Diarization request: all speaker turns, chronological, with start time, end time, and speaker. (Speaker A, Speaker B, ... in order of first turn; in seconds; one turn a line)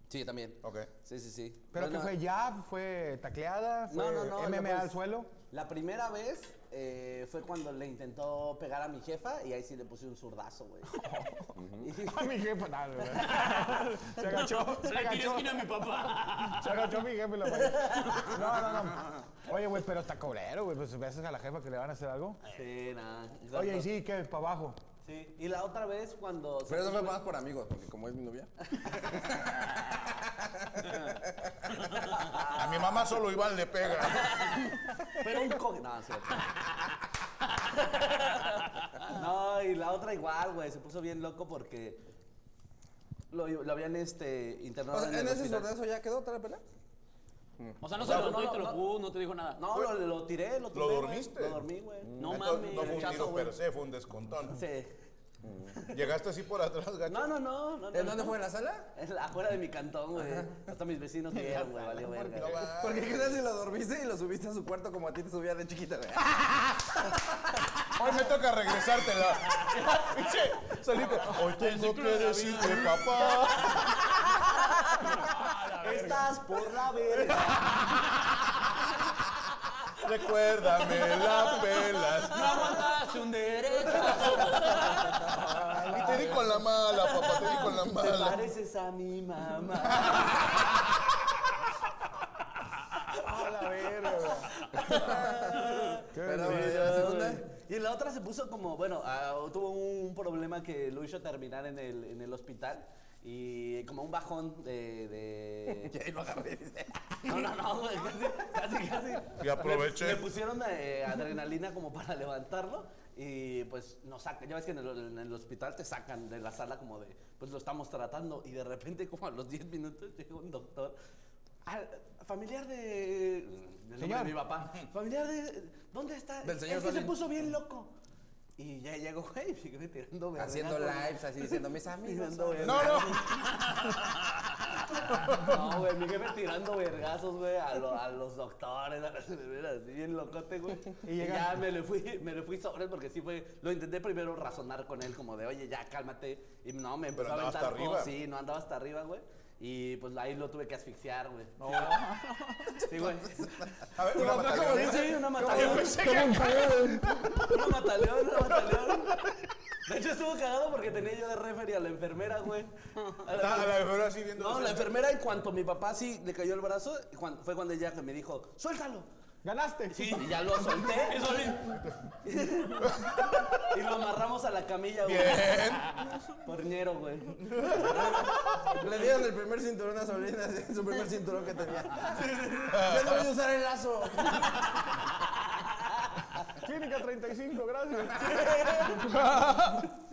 Speaker A: 0.1-2.2
Speaker B: 0.6-0.9
Speaker C: 1.7-5.3
Speaker A: 3.9-11.0
Speaker C: 10.9-22.4
Speaker D: 11.6-11.9
Speaker A: 11.8-12.3
Speaker E: 13.1-16.9
Speaker A: 17.5-18.3
Speaker E: 18.1-18.4
Speaker A: 22.5-23.9
Speaker C: 23.5-24.8
Speaker A: 25.0-27.3
Speaker D: 26.7-31.6
Speaker A: 28.8-29.2
Speaker A: 32.3-33.1
Speaker B: 32.5-34.6
Speaker A: 34.0-36.6
Speaker A: 37.8-38.5
Speaker E: 38.8-39.1
Speaker A: 39.1-42.0
Speaker A: 43.3-45.7
Speaker D: 44.9-46.6
Speaker D: 47.6-47.9
Speaker E: 47.8-49.6
Speaker A: 48.0-49.0
Speaker B: 48.0-48.4
Speaker A: 49.6-53.6
Speaker B: 50.7-51.7
Speaker D: 52.1-52.5
Speaker B: 52.2-54.6
Speaker A: 54.5-55.0
Speaker D: 55.4-55.8
Speaker B: 55.9-57.4
Speaker A: 57.1-58.4
Speaker D: 57.9-58.9
Speaker A: 59.0-62.7
Speaker D: 60.2-60.7
Speaker C: 61.5-62.6
Speaker B: 62.4-63.4
Speaker D: 62.7-66.9
Speaker B: 68.0-74.1
Speaker E: 71.3-76.4
Speaker A: 74.3-75.0
Speaker A: 75.8-77.9
Speaker B: 77.3-77.8
Speaker B: 80.0-82.8
Speaker E: 81.3-81.6
Speaker E: 82.3-85.3
Speaker A: 82.3-83.0
Speaker A: 83.8-84.5
Speaker B: 84.0-84.6
Speaker C: 85.2-86.6
Speaker B: 85.9-88.5
Speaker A: 87.3-90.7
Speaker B: 90.0-90.6
Speaker C: 93.1-94.6
Speaker D: 94.8-97.5
Speaker A: 95.0-105.9
Speaker C: 96.1-97.0
Speaker D: 105.7-107.5
Speaker A: 107.2-121.0
Speaker B: 109.4-110.3
Speaker A: 121.7-127.9
Speaker C: 124.0-124.4
Speaker D: 126.4-127.2
Speaker A: 128.6-133.4
Speaker D: 130.4-133.0
Speaker B: 132.6-133.6
Speaker E: 133.7-134.0
Speaker B: 135.1-135.8
Speaker A: 135.3-152.0
Speaker C: 141.0-141.6
Speaker B: 147.1-148.2
Speaker C: 151.6-152.8
Speaker D: 152.8-157.2
Speaker A: 152.9-153.5
Speaker B: 153.9-157.4
Speaker A: 154.1-156.2
Speaker C: 155.7-157.3
Speaker A: 157.5-159.2
Speaker B: 158.5-159.3
Speaker A: 159.9-169.1
Speaker B: 163.3-165.0
Speaker C: 169.4-170.5
Speaker A: 169.9-171.4
Speaker E: 171.0-171.8
Speaker C: 171.2-171.9
Speaker A: 172.2-172.9
Speaker B: 172.8-173.7
Speaker A: 173.7-175.7
Speaker B: 175.0-176.2
Speaker A: 176.4-177.4
Speaker B: 177.3-178.8
Speaker D: 177.8-184.6
Speaker B: 182.7-183.3
Speaker C: 186.6-189.8
Speaker B: 188.9-189.9